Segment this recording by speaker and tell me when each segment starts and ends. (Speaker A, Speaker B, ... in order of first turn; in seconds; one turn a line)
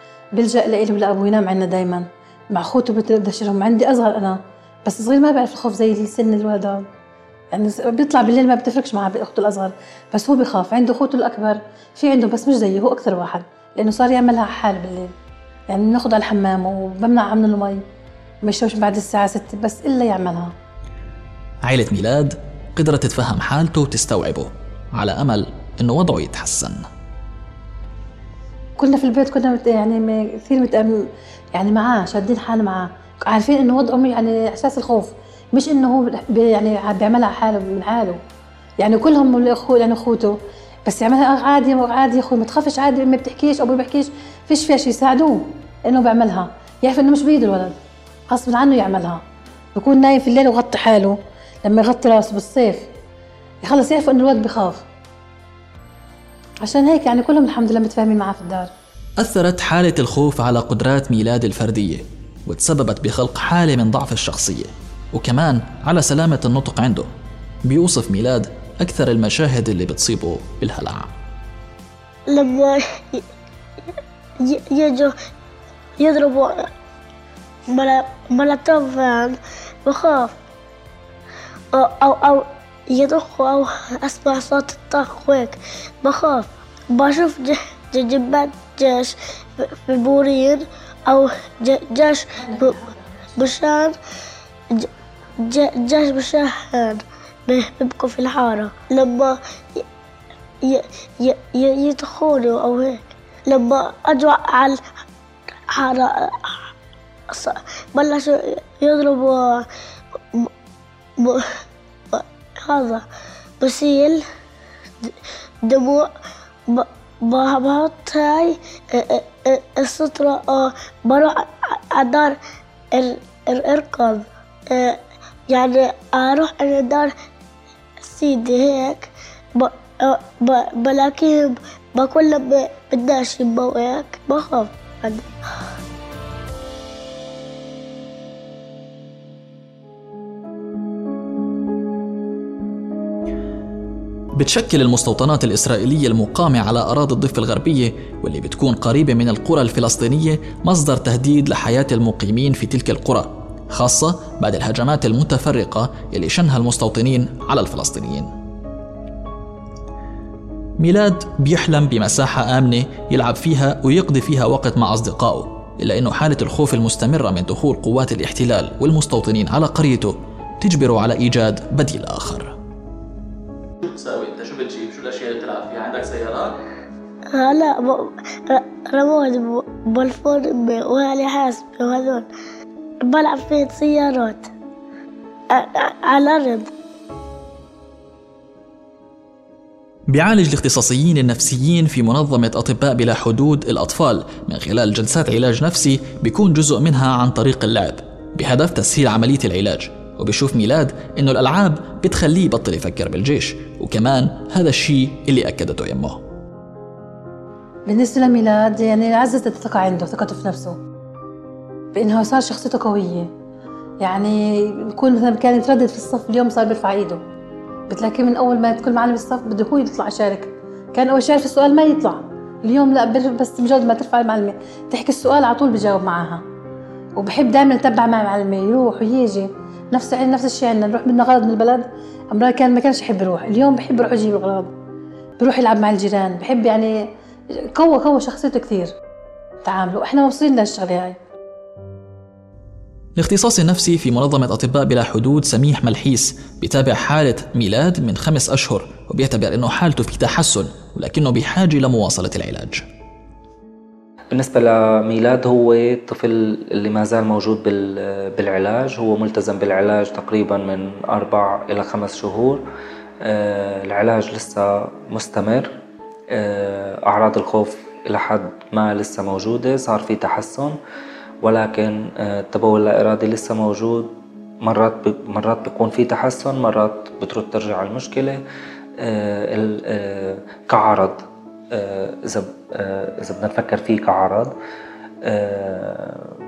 Speaker A: 0.3-6.8
Speaker A: 7.5-15.1
Speaker A: 15.7-17.8
Speaker A: 18.4-20.5
Speaker B: 21.6-26.8
Speaker A: 28.8-38.2
Speaker A: 38.8-47.8
Speaker A: 48.3-49.2
Speaker A: 49.7-52.9
Speaker A: 53.6-54.8
Speaker A: 56.6-58.7
Speaker B: 59.2-67.1
Speaker B: 67.7-71.1
Speaker C: 72.3-73.2
Speaker C: 74.4-75.1
Speaker C: 76.0-76.7
Speaker C: 77.7-80.3
Speaker C: 81.7-92.8
Speaker A: 92.5-92.9
Speaker C: 93.4-94.0
Speaker C: 95.4-99.8
Speaker C: 100.6-104.8
Speaker C: 105.7-106.7
Speaker C: 107.3-109.7
Speaker C: 111.2-113.0
Speaker C: 113.6-114.2
Speaker C: 115.6-116.1
Speaker C: 116.7-122.4
Speaker C: 122.9-127.1
Speaker C: 128.0-135.3
Speaker B: 144.3-158.3
Speaker B: 160.8-172.5
Speaker B: 173.8-176.6
Speaker C: 177.3-182.3
Speaker C: 183.0-184.5
Speaker C: 185.5-186.7
Speaker B: 190.1-206.2
Speaker A: 207.8-210.8
Speaker A: 211.9-213.3
Speaker A: 214.0-217.2
Speaker A: 217.9-226.4
Speaker A: 227.2-234.7
Speaker A: 235.4-237.1
Speaker A: 237.7-238.9
Speaker A: 239.6-241.2
Speaker B: 243.2-252.8
Speaker D: 254.3-262.6
Speaker D: 263.2-265.7
Speaker D: 266.4-270.7
Speaker D: 271.4-274.1
Speaker D: 274.6-278.4
Speaker D: 279.0-281.2
Speaker D: 281.7-284.5
Speaker D: 285.2-286.3